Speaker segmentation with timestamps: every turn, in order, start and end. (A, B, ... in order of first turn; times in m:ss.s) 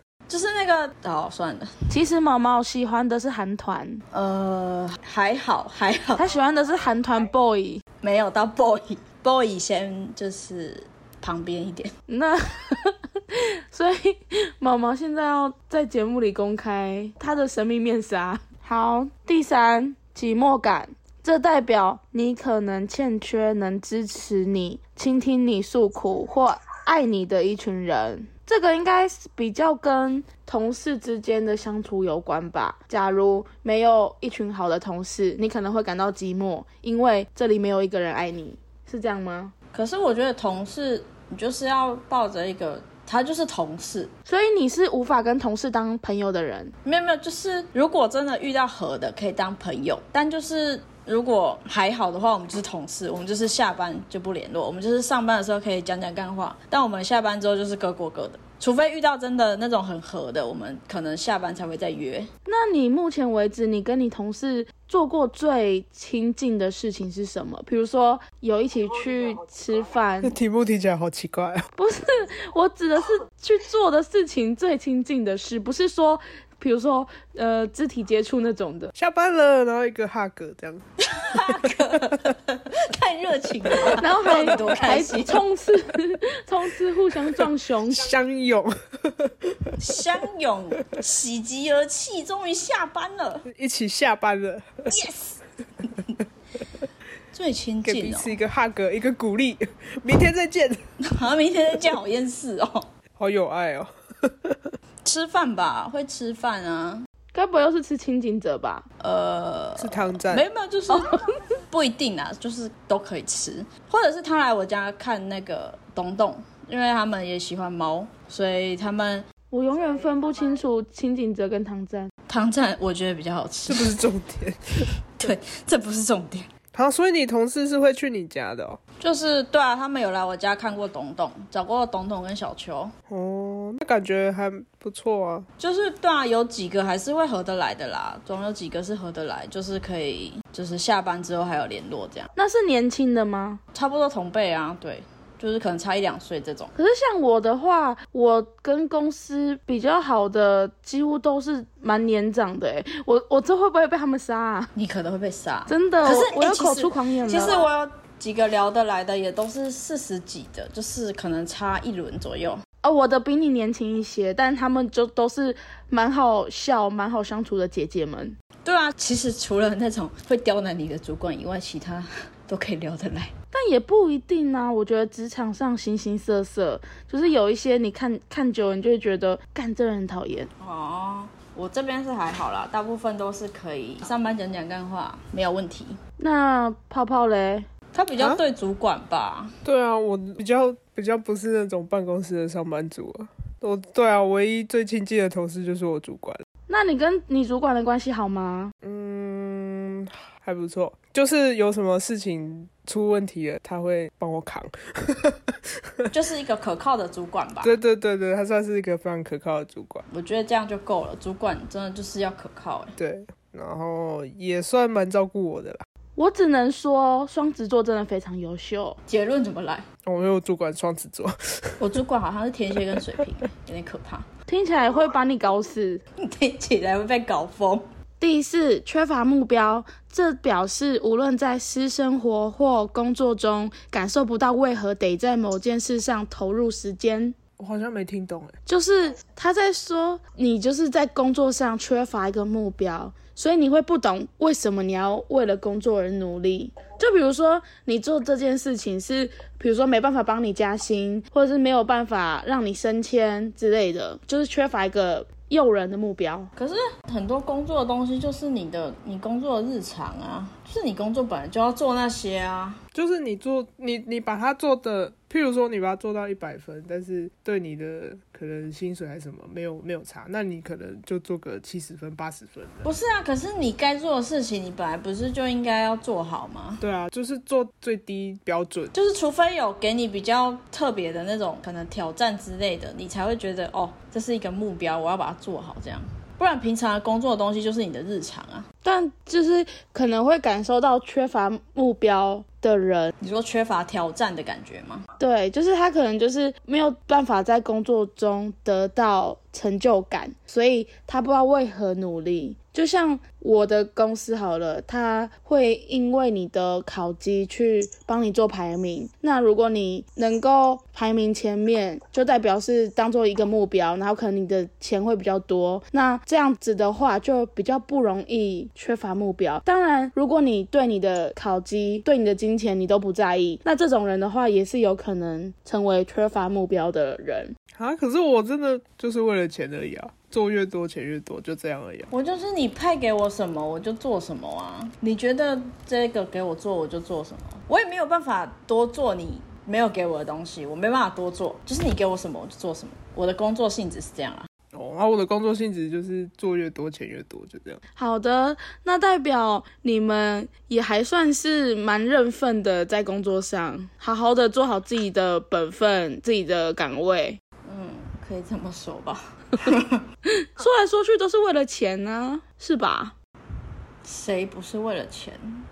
0:00.3-0:01.7 A
0:01.9-0:04.0 B
0:04.1-0:06.2 A
0:06.2-0:07.8 B
0:08.0-0:11.9 A
0:12.1-0:39.5 B
0:39.7-0:44.1 A
0:44.2-0:46.7 B
0:46.8-1:02.3 A
1:02.4-1:10.3 B
1:10.2-1:11.6 C
1:11.8-1:18.9 B
1:19.0-1:20.8 C
1:21.0-1:25.4 A
1:24.0-1:28.1 B
1:27.9-1:29.8 C
1:29.8-1:33.4 A
1:33.5-1:34.9 C
1:34.9-1:36.2 A
1:37.3-1:38.3 A
1:37.8-1:40.8 C
1:41.0-1:42.9 A
1:43.2-1:44.7 C
1:45.0-1:47.0 A
1:47.3-1:48.8 B
1:49.0-1:59.2 A
1:49.8-1:50.4 C
1:50.9-1:51.3 B
1:59.5-2:02.1 B
2:02.3-2:04.0 A
2:03.7-2:04.9 C
2:05.2-2:06.5 A
2:06.7-2:08.8 C
2:09.0-2:12.9 A
2:13.1-2:15.5 C
2:15.6-2:22.3 A
2:22.4-2:23.6 B
2:23.7-2:26.7 A
2:26.8-2:34.7 B
2:34.7-2:42.6 A
2:35.7-2:37.6 B
2:42.8-2:48.4 B
2:48.6-2:53.3 A
2:53.5-3:00.5 B
3:00.6-3:06.0 A
3:06.2-3:07.7 B
3:07.9-3:09.5 A
3:09.6-3:16.4 C
3:16.7-3:18.7 B
3:18.8-3:26.0 C
3:26.1-3:27.7 A
3:27.6-3:30.0 C
3:30.1-3:32.9 A
3:33.0-3:35.8 C
3:36.2-3:39.0 B
3:39.1-3:39.8 A
3:40.0-3:41.8 C
3:41.8-3:44.3 A
3:44.5-3:46.0 B
3:46.2-3:47.8 A
3:48.2-3:57.4 B
3:57.6-3:58.5 C
3:58.6-4:16.5 B
4:16.6-4:22.8 A
4:22.9-4:32.9 C
4:32.8-4:36.8 A
4:36.8-4:38.9 C
4:38.9-4:48.6 A
4:48.8-4:53.1 B
4:53.2-4:55.0 A
4:55.2-5:27.5 B
5:27.7-5:32.1 C
5:32.1-5:44.5 A
5:44.7-5:47.8 C
5:48.0-5:57.4 B
5:57.6-6:00.0 A
6:00.4-6:03.1 B
6:04.0-6:05.6 A